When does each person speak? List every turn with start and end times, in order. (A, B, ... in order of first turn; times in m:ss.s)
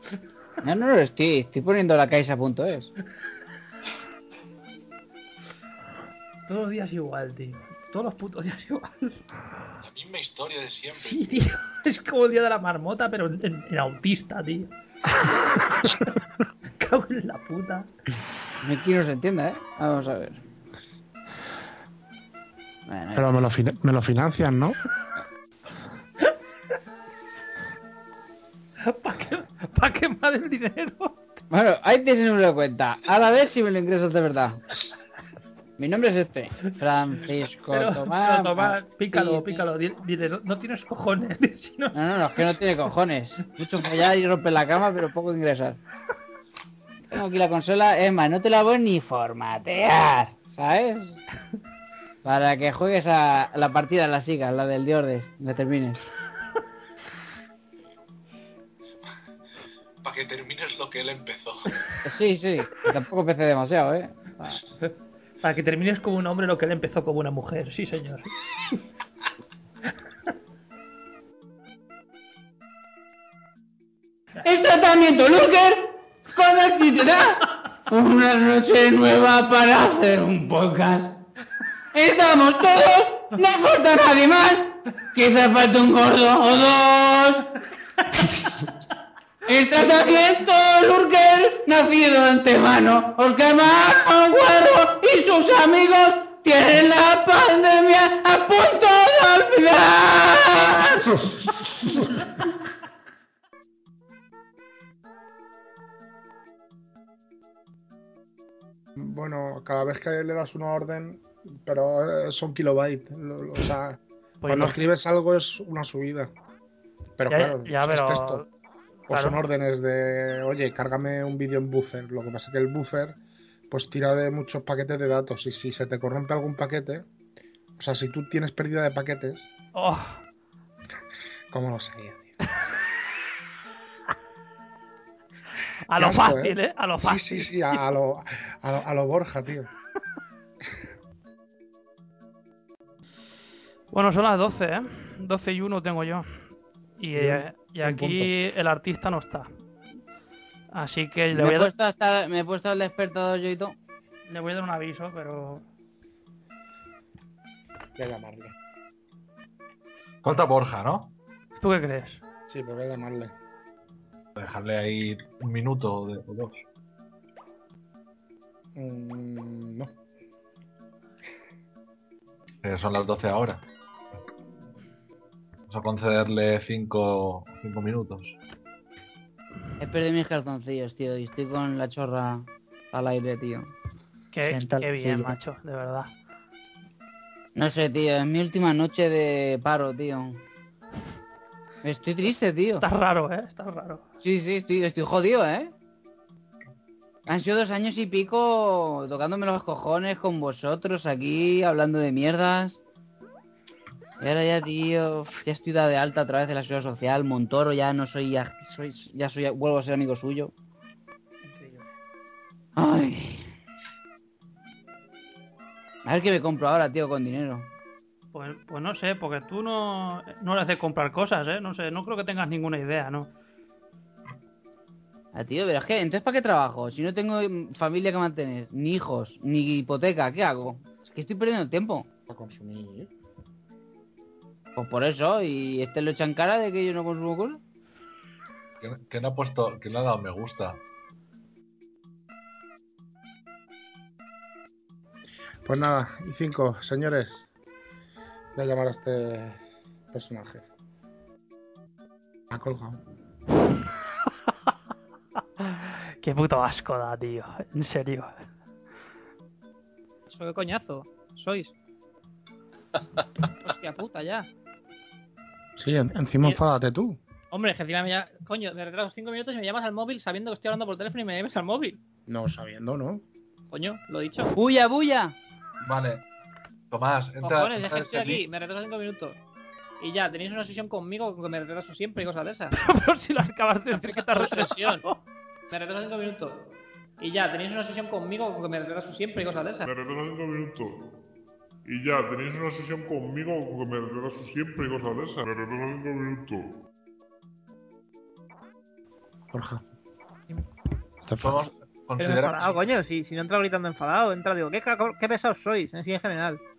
0:00.6-0:02.9 A
0:06.5-0:09.2 B
0:09.8-0:11.4 C
0:10.9-0:14.7 B
0:16.8-0:17.9 B
0:18.6-0:20.4 A
0:22.9-0:23.2 A
0:23.1-0:24.8 D
0:28.9-0:31.2 B
0:31.5-0:34.6 A
0:35.8-0:39.6 A
0:37.7-0:41.9 B
0:41.9-0:45.8 A
0:47.1-0:51.2 A
0:52.2-0:56.0 A
1:00.0-1:01.6 C
1:02.0-1:04.6 A
1:05.4-1:08.3 B
1:14.4-1:17.4 E
1:17.9-1:21.2 E
1:21.9-1:27.4 E
1:29.5-1:41.0 E
1:49.0-1:56.3 D
1:54.4-1:54.8 B
1:57.2-1:58.4 D
1:57.3-1:58.4 B
1:59.1-1:59.4 B
1:59.1-2:03.2 D
2:03.7-2:07.0 D
2:07.8-2:09.5 D
2:09.7-2:10.2 B
2:11.5-2:12.3 D
2:15.9-2:17.8 B
2:16.0-2:19.7 D
2:23.9-2:26.3 B
2:27.0-2:29.5 B
2:27.2-2:28.3 D
2:30.7-2:31.7 B
2:31.3-2:33.8 A
2:34.3-2:35.6 B
2:38.0-2:38.5 D
2:40.2-2:41.1 F
2:41.6-2:42.2 B
2:42.5-2:43.3 D
2:44.4-2:46.6 F
2:48.8-2:49.9 D
2:52.6-2:53.6 F
2:55.7-2:58.4 F
2:59.8-3:03.7 A
3:04.3-3:06.1 B
3:04.5-3:05.4 A
3:07.6-3:10.4 A
3:11.8-3:12.8 A
3:12.8-3:14.0 B
3:14.2-3:15.7 A
3:17.3-3:22.8 A
3:24.2-3:30.5 A
3:31.4-3:31.9 B
3:32.8-3:33.5 A
3:36.0-3:37.7 A
3:38.3-3:43.3 B
3:45.3-3:52.1 A
3:52.3-3:53.1 D
3:54.8-3:57.6 A
3:58.8-4:00.8 F
4:05.6-4:07.5 D
4:08.5-4:09.6 D
4:10.1-4:10.6 D
4:12.5-4:13.0 D
4:15.6-4:18.3 B
4:20.3-4:21.7 G
4:23.6-4:24.5 G
4:25.8-4:27.2 D
4:27.5-4:32.0 G
4:32.3-4:33.2 D
4:33.7-4:34.5 G
4:34.5-4:35.4 A
4:35.8-4:36.2 F
4:36.9-4:38.4 F
4:37.4-4:39.4 G
4:40.0-4:42.7 G
4:42.7-4:45.2 B
4:43.9-4:45.0 G
4:45.7-4:46.6 G
4:47.2-4:49.8 G
4:49.8-4:51.0 H
4:51.8-4:56.7 H
4:59.5-4:59.8 D
5:01.2-5:01.6 D
5:01.4-5:03.0 F
5:02.2-5:06.6 G